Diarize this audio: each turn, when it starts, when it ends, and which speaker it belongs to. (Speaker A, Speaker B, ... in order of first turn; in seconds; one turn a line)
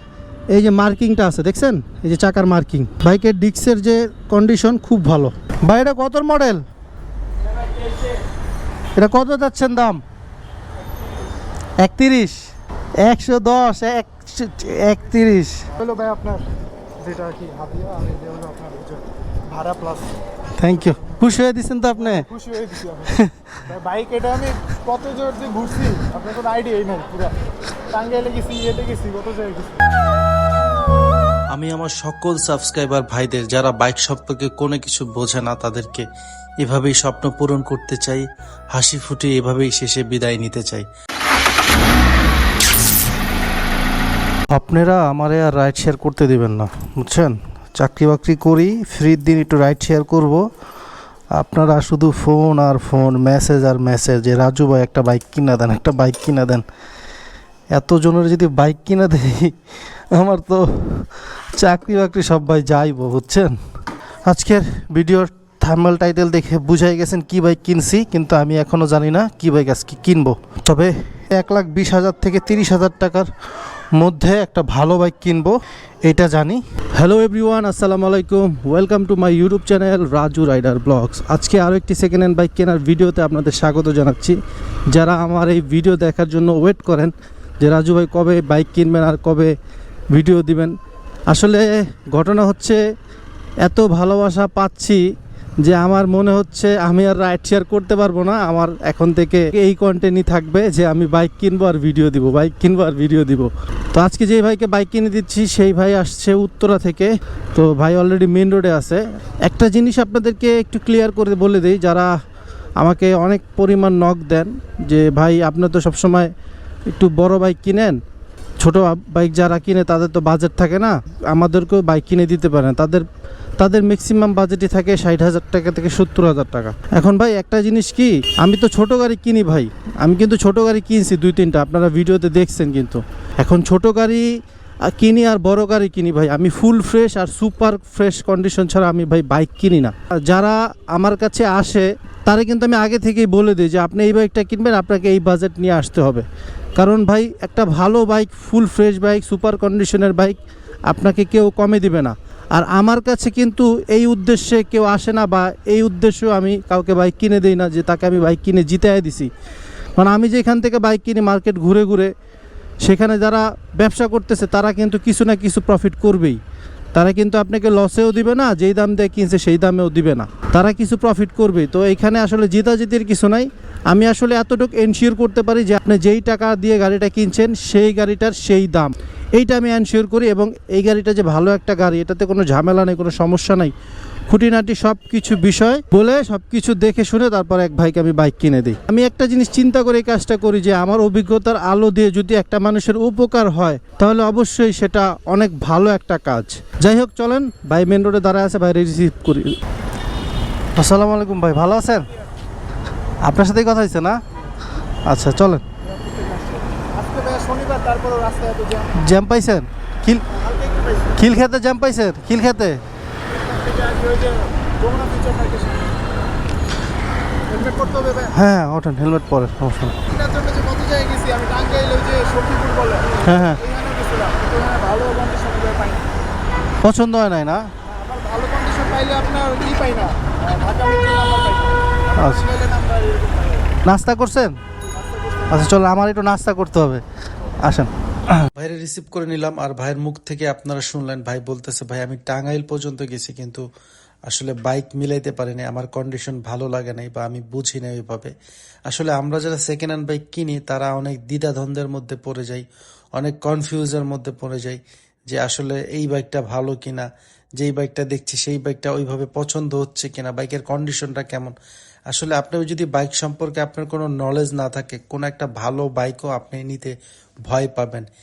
Speaker A: 0.5-6.6
Speaker A: 8.9-10.0
Speaker A: 11.8-12.4
Speaker A: 13.0-15.7
Speaker B: 15.8-16.4
Speaker B: 17.0-20.1
Speaker A: 20.6-22.2
Speaker B: 21.9-27.3
Speaker A: 23.1-23.6
Speaker B: 27.9-29.8
Speaker C: 31.5-36.0
Speaker C: 36.6-40.9
Speaker A: 44.5-50.5
Speaker A: 51.3-56.6
Speaker A: 57.7-59.5
Speaker A: 60.1-63.5
Speaker A: 64.2-73.3
Speaker A: 73.9-84.4
Speaker A: 84.9-89.5
Speaker A: 90.1-90.7
Speaker A: 91.3-92.8
Speaker A: 93.6-95.0
Speaker A: 95.6-112.1
Speaker A: 112.8-116.3
Speaker A: 116.9-118.0
Speaker A: 118.6-123.0
Speaker A: 123.6-134.3
Speaker A: 134.9-150.4
Speaker A: 150.9-159.3
Speaker A: 159.9-162.1
Speaker A: 162.8-166.4
Speaker A: 166.9-183.7
Speaker A: 184.3-199.5
Speaker A: 200.8-202.1
Speaker A: 203.2-204.2
Speaker A: 205.0-205.6
Speaker B: 205.8-209.0
Speaker A: 208.9-210.2
Speaker B: 210.3-211.1
Speaker A: 211.2-212.8
Speaker B: 213.3-216.0
Speaker B: 217.5-218.3
Speaker A: 218.3-220.0
Speaker B: 220.1-226.1
Speaker A: 223.2-223.6
Speaker A: 226.8-227.7
Speaker B: 227.8-233.7
Speaker A: 232.2-232.4
Speaker A: 233.8-234.6
Speaker B: 234.9-235.7
Speaker A: 235.5-237.0
Speaker A: 237.6-238.4
Speaker C: 238.5-243.7
Speaker C: 244.3-248.3
Speaker C: 248.9-252.7
Speaker C: 253.2-257.1
Speaker C: 257.6-261.6
Speaker C: 262.1-266.9
Speaker C: 267.5-268.1